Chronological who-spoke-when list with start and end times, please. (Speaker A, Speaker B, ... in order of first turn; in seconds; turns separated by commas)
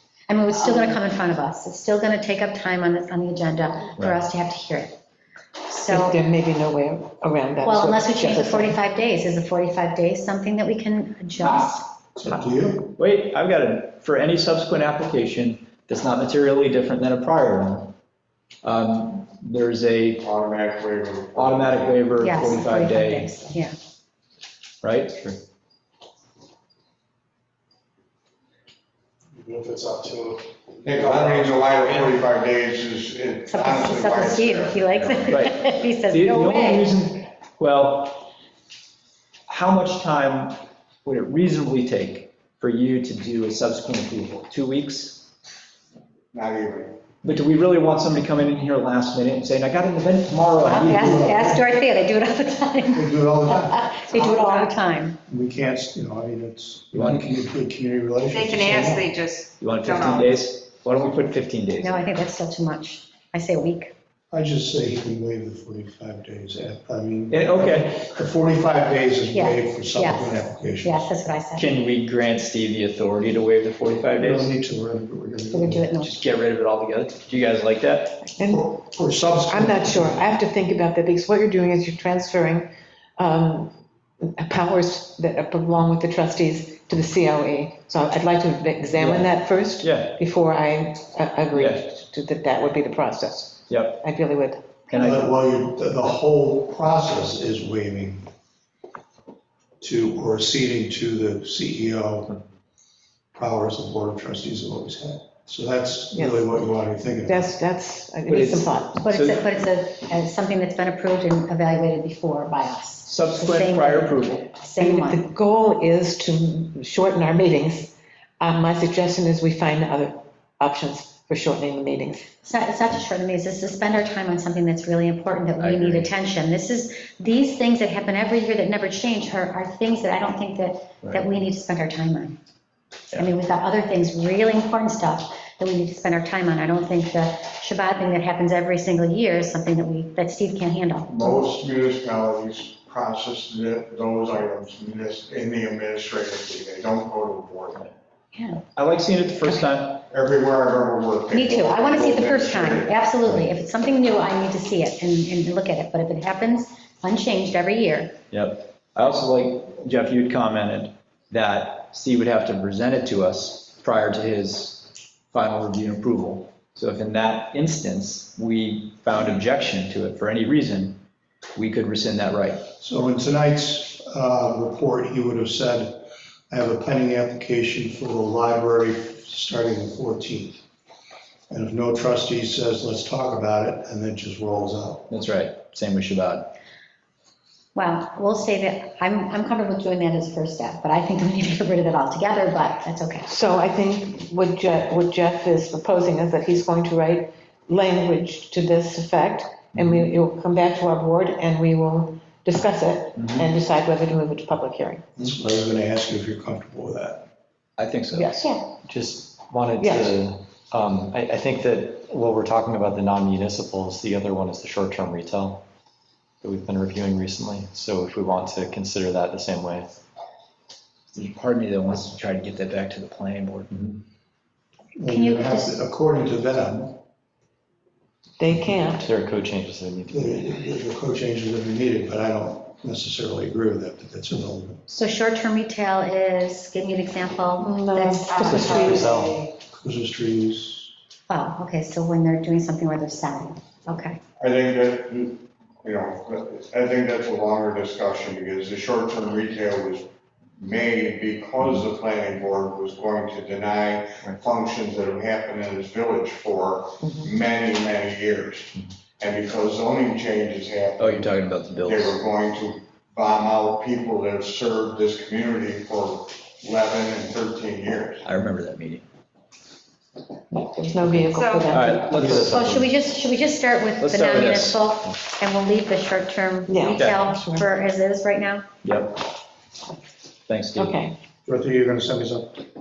Speaker A: 0.3-5.0, Speaker A: 5.7-6.2, Speaker B: 5.9-8.8, Speaker A: 7.6-11.9, Speaker C: 12.2-12.9, Speaker D: 13.0-17.9, Speaker D: 18.6-20.3, Speaker E: 20.2-22.0, Speaker D: 21.4-23.3, Speaker A: 22.2-23.7, Speaker D: 24.8-25.3, Speaker C: 29.4-32.2, Speaker E: 30.8-34.9, Speaker A: 33.5-36.9, Speaker D: 35.2-38.3, Speaker D: 39.5-45.3, Speaker E: 46.3-47.0, Speaker D: 47.2-51.3, Speaker A: 50.6-55.2, Speaker C: 50.8-51.6, Speaker C: 52.9-54.7, Speaker C: 55.3-59.2, Speaker D: 56.9-57.3, Speaker F: 58.3-60.4, Speaker D: 59.6-62.1, Speaker A: 61.8-63.9, Speaker C: 64.3-71.1, Speaker D: 67.3-68.0, Speaker A: 69.3-71.7, Speaker D: 71.6-74.5, Speaker C: 74.2-75.9, Speaker A: 75.5-76.2, Speaker D: 76.0-78.2, Speaker C: 78.4-80.2, Speaker B: 79.5-82.7, Speaker B: 83.2-94.8, Speaker D: 89.0-89.2, Speaker D: 89.8-90.2, Speaker D: 91.5-91.8, Speaker D: 93.7-94.0, Speaker D: 94.9-95.3, Speaker C: 94.9-98.3, Speaker C: 99.8-102.3, Speaker C: 103.3-107.5, Speaker B: 107.3-109.0, Speaker F: 107.7-108.0, Speaker D: 108.3-109.4, Speaker A: 109.0-115.2, Speaker D: 113.1-114.5, Speaker B: 114.8-122.3, Speaker A: 122.4-132.4, Speaker D: 125.6-126.1, Speaker A: 133.2-141.4, Speaker E: 141.1-147.9, Speaker A: 148.3-148.6, Speaker D: 148.8-150.0, Speaker E: 150.1-153.0, Speaker A: 151.3-158.2, Speaker D: 158.3-171.0, Speaker D: 171.6-172.7, Speaker C: 172.8-180.6, Speaker C: 181.5-185.1, Speaker D: 185.1-186.6, Speaker A: 187.8-193.3, Speaker B: 193.3-205.0, Speaker D: 199.8-200.1, Speaker D: 203.2-203.5, Speaker C: 205.2-207.3, Speaker D: 207.8-208.3, Speaker B: 208.1-208.6, Speaker G: 208.8-215.6, Speaker B: 209.8-210.2, Speaker G: 216.4-220.0, Speaker D: 221.1-224.0, Speaker C: 225.0-227.0, Speaker A: 225.1-225.8, Speaker B: 228.4-229.0, Speaker G: 228.6-230.5, Speaker C: 230.1-234.8, Speaker A: 234.9-239.1, Speaker B: 237.7-238.9, Speaker F: 237.9-239.4, Speaker G: 238.4-239.4, Speaker C: 239.7-240.9, Speaker A: 241.3-244.2, Speaker E: 244.4-268.2, Speaker D: 261.0-262.2, Speaker D: 268.2-269.0, Speaker B: 270.8-272.5, Speaker F: 270.9-272.0, Speaker D: 271.7-272.8, Speaker A: 272.4-278.7, Speaker D: 274.0-274.8, Speaker B: 276.7-277.6, Speaker D: 276.9-277.2, Speaker D: 278.8-279.2, Speaker D: 280.5-281.0, Speaker B: 280.8-281.2, Speaker C: 281.5-282.6